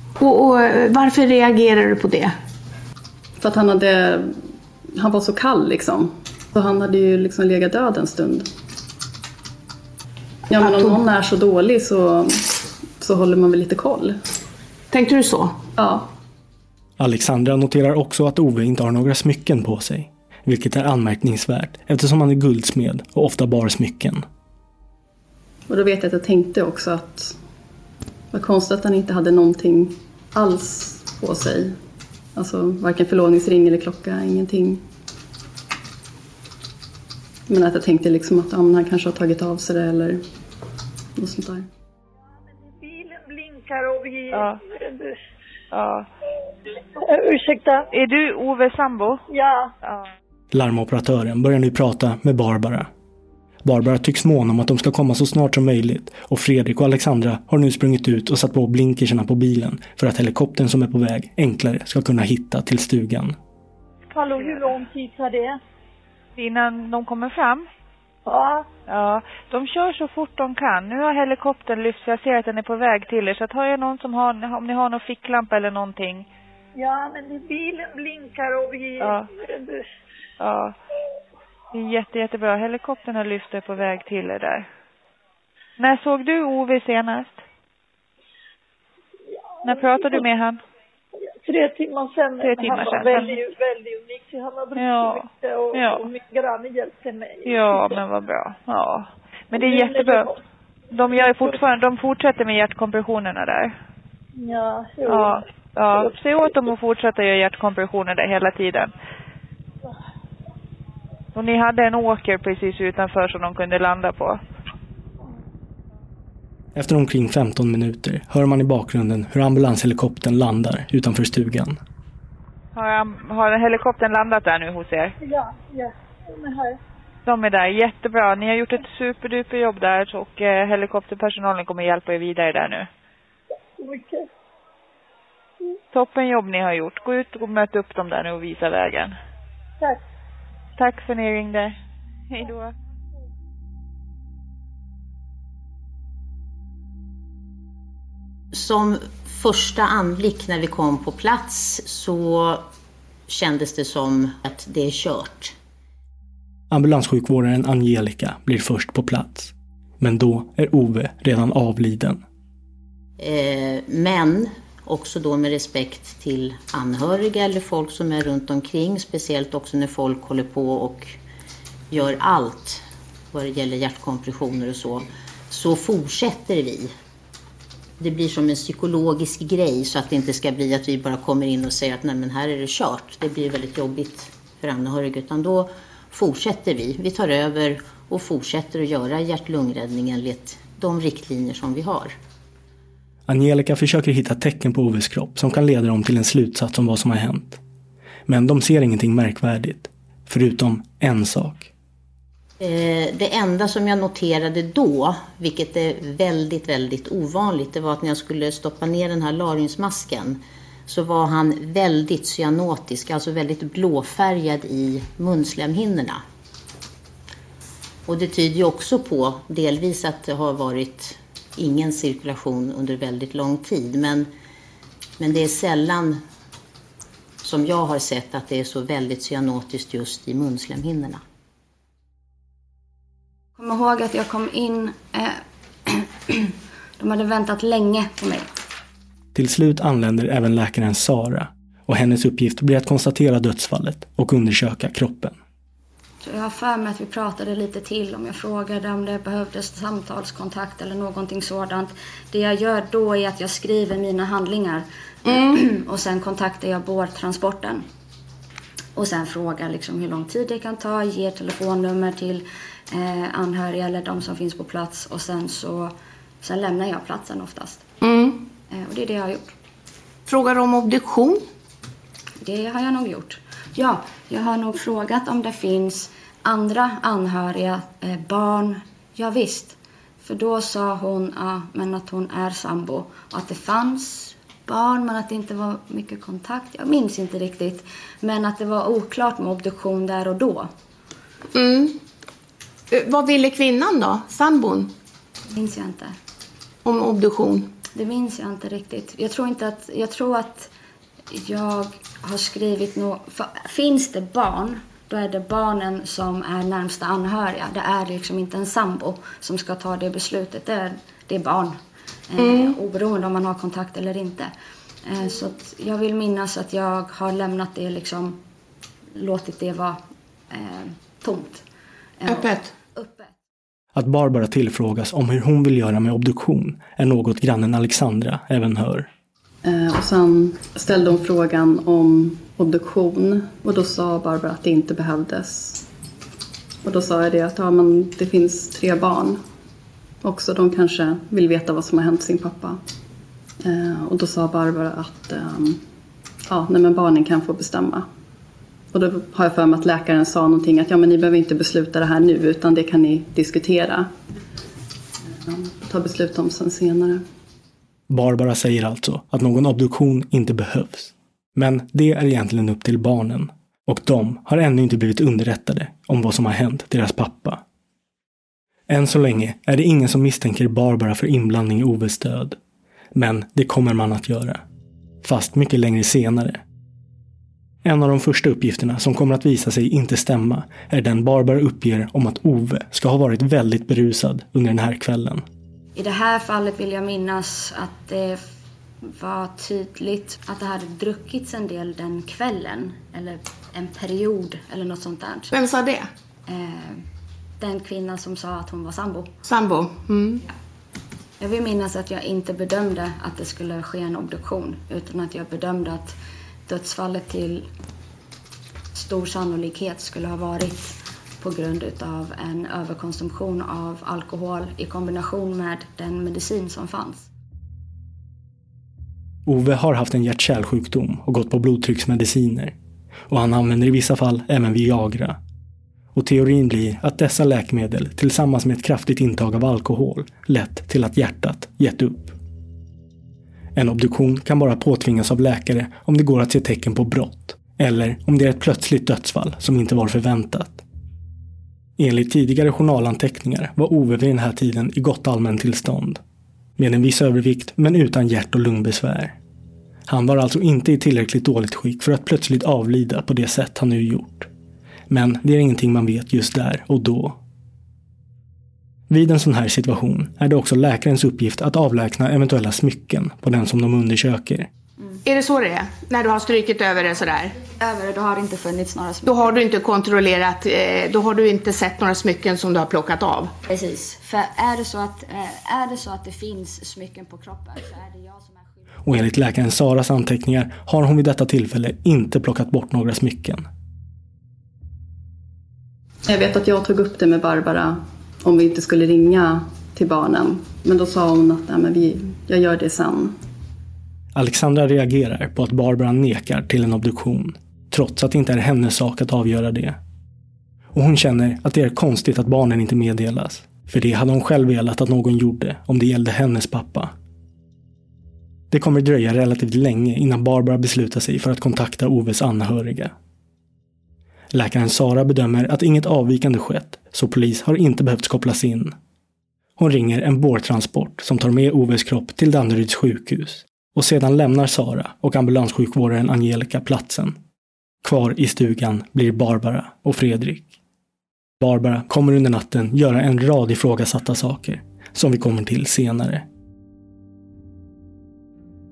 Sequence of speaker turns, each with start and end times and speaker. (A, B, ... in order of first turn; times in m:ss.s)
0:00.2-0:02.3 A
0:03.4-0:04.4 B
0:05.0-0:08.5 B
0:10.5-0:12.5 B
0:10.6-0:11.0 A
0:13.0-0:14.2 B
0:14.9-0:15.6 A
0:15.8-0:16.1 B
0:17.0-0:24.2 C
0:25.7-0:27.4 B
0:28.3-0:31.7 B
0:32.4-0:34.8 B
0:37.5-0:40.2 B
0:41.2-0:41.7 B
0:42.8-0:45.1 D
0:44.3-0:44.6 E
0:45.7-0:46.1 E
0:47.0-0:47.8 D
0:47.9-0:49.2 E
0:49.3-0:49.7 D
0:50.5-0:52.9 C
0:53.6-1:03.4 C
1:04.1-1:05.6 D
1:04.4-1:04.8 E
1:06.4-1:07.7 E
1:08.2-1:08.6 D
1:08.9-1:16.3 E
1:16.8-1:19.8 D
1:19.0-1:19.3 E
1:20.4-1:20.8 E
1:21.7-1:24.6 E
1:25.8-1:27.4 E
1:29.6-1:30.2 D
1:29.6-1:30.6 E
1:31.4-1:38.0 D
1:32.4-1:33.4 E
1:34.8-1:36.0 E
1:37.4-1:40.3 E
1:39.5-1:40.3 D
1:40.9-1:43.7 E
1:41.1-1:41.5 D
1:44.4-1:45.4 D
1:45.0-1:48.9 E
1:51.3-1:54.4 E
1:56.7-2:01.8 C
2:02.7-2:05.1 E
2:05.2-2:06.8 D
2:07.2-2:12.9 E
2:13.8-2:14.2 D
2:15.9-2:19.2 E
2:20.8-2:21.7 E
2:22.3-2:22.7 E
2:28.5-2:32.6 F
2:33.3-2:35.5 F
2:36.7-2:42.2 C
2:43.2-2:51.1 F
2:51.9-2:56.9 F
2:58.0-3:12.1 F
3:13.3-3:17.6 C
3:18.3-3:21.7 C
3:22.6-3:36.2 F
3:38.1-3:44.3 F
3:45.2-3:46.2 F
3:47.4-3:51.2 F
3:53.6-3:58.5 G
3:59.3-4:05.4 C
4:06.2-4:17.8 G
4:15.2-4:15.6 A
4:19.0-4:27.8 G
4:28.0-4:28.4 A
4:28.7-4:29.5 G
4:30.2-4:31.4 A
4:32.4-4:50.7 G
4:51.5-4:52.0 A
4:52.9-4:54.9 A
4:55.5-4:56.2 G
4:56.8-4:57.7 A
4:57.9-5:00.7 G
5:01.3-5:11.8 G
5:12.3-5:14.5 G
5:12.4-5:12.7 A
5:15.0-5:18.4 G
5:19.1-5:21.6 G
5:22.2-5:23.4 G
5:22.3-5:22.7 A
5:23.9-5:29.1 C
5:29.6-5:35.8 B
5:36.8-5:39.4 B
5:40.2-5:42.8 B
5:43.6-5:45.8 B
5:46.5-5:48.0 B
5:48.9-5:54.1 B
5:55.5-5:57.2 B
5:58.1-6:07.6 C
6:08.9-6:12.6 C
6:13.1-6:14.6 C
6:15.2-6:16.6 C
6:17.8-6:25.4 C
6:25.9-6:28.4 G
6:29.0-6:35.5 G
6:35.5-6:36.1 A
6:36.4-6:37.0 G
6:37.6-6:39.3 G
6:39.4-6:40.4 A
6:41.4-6:47.7 G
6:48.9-6:57.3 G
6:59.4-7:02.7 C
7:03.3-7:05.4 C
7:06.1-7:12.4 C
7:13.8-7:20.8 C
7:22.0-7:26.2 C
7:26.8-7:29.4 C
7:30.1-7:34.5 C
7:35.1-7:37.4 C
7:39.1-7:44.7 C
7:45.2-7:47.6 A
7:47.8-7:49.5 G
7:49.2-7:53.5 A
7:53.7-7:58.8 G
7:59.0-8:03.6 C
8:06.3-8:13.4 B
8:14.3-8:20.0 C
8:20.9-8:27.1 C
8:28.7-8:33.1 C
8:34.5-8:38.9 C
8:39.8-8:47.4 C
8:48.0-8:50.7 C
8:51.6-8:56.4 C